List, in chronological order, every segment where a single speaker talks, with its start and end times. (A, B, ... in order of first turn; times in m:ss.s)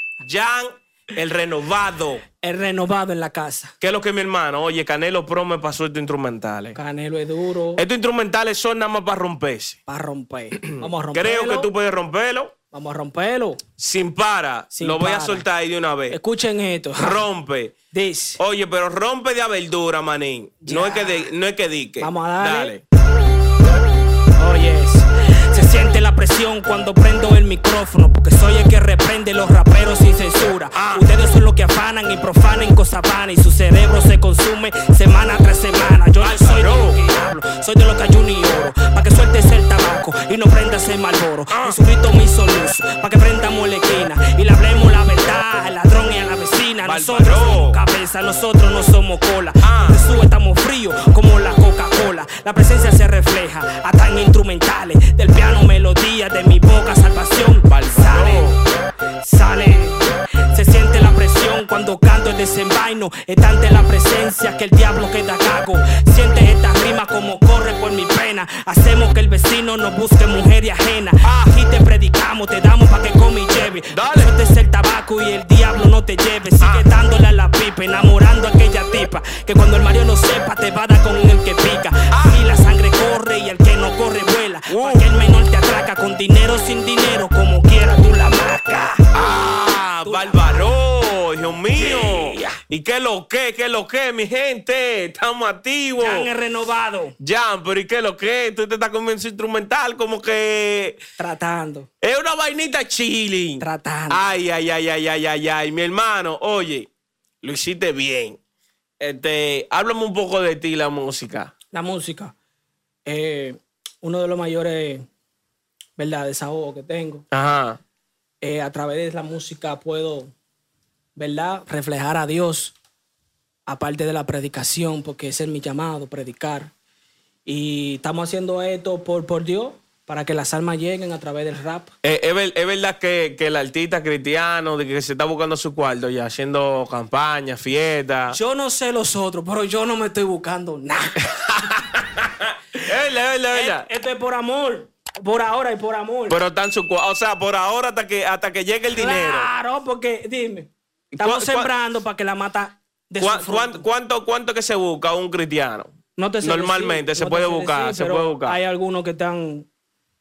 0:00.2-0:02.2 A
0:02.4-0:03.8 B
0:03.8-0:06.8 A
0:06.8-0:07.8 B
0:07.8-0:09.8 A
0:09.9-0:11.7 B
0:10.5-0:12.5 A
0:12.7-0:13.6 B
0:13.8-0:16.2 A
0:14.7-0:15.4 B
0:16.1-0:17.2 B
0:17.0-0:17.7 A
0:17.9-0:18.4 B
0:18.4-0:22.8 A
0:20.6-0:21.3 B
0:22.0-0:22.8 B
0:24.4-0:58.6 B
0:30.7-0:31.1 A
0:36.2-0:37.0 A
0:41.5-0:41.8 A
0:46.8-0:47.8 A
0:49.6-0:50.0 A
0:57.7-0:58.6 A
0:59.2-1:29.1 B
1:11.2-1:11.5 A
1:13.9-1:14.3 A
1:16.6-1:16.9 A
1:22.1-1:22.4 A
1:24.7-1:25.1 A
1:29.1-1:36.3 A
1:30.0-1:30.8 B
1:31.8-1:32.6 B
1:36.0-1:37.2 B
1:37.2-1:41.0 A
1:41.2-1:41.9 B
1:42.0-1:46.9 A
1:43.6-1:44.2 B
1:47.4-1:48.4 A
1:49.0-1:51.5 A
1:51.7-1:52.3 B
1:53.1-1:55.1 B
1:56.0-1:57.2 B
1:57.3-1:57.8 A
1:58.4-2:00.3 B
2:01.2-2:02.8 B
2:03.7-2:06.7 B
2:07.5-2:11.9 B
2:12.0-2:18.4 A
2:18.3-2:21.2 B
2:21.2-2:23.9 A
2:23.5-2:26.4 B
2:26.3-2:29.5 A
2:28.9-2:33.8 B
2:31.2-2:31.7 A
2:33.2-2:38.6 A
2:36.2-2:39.7 B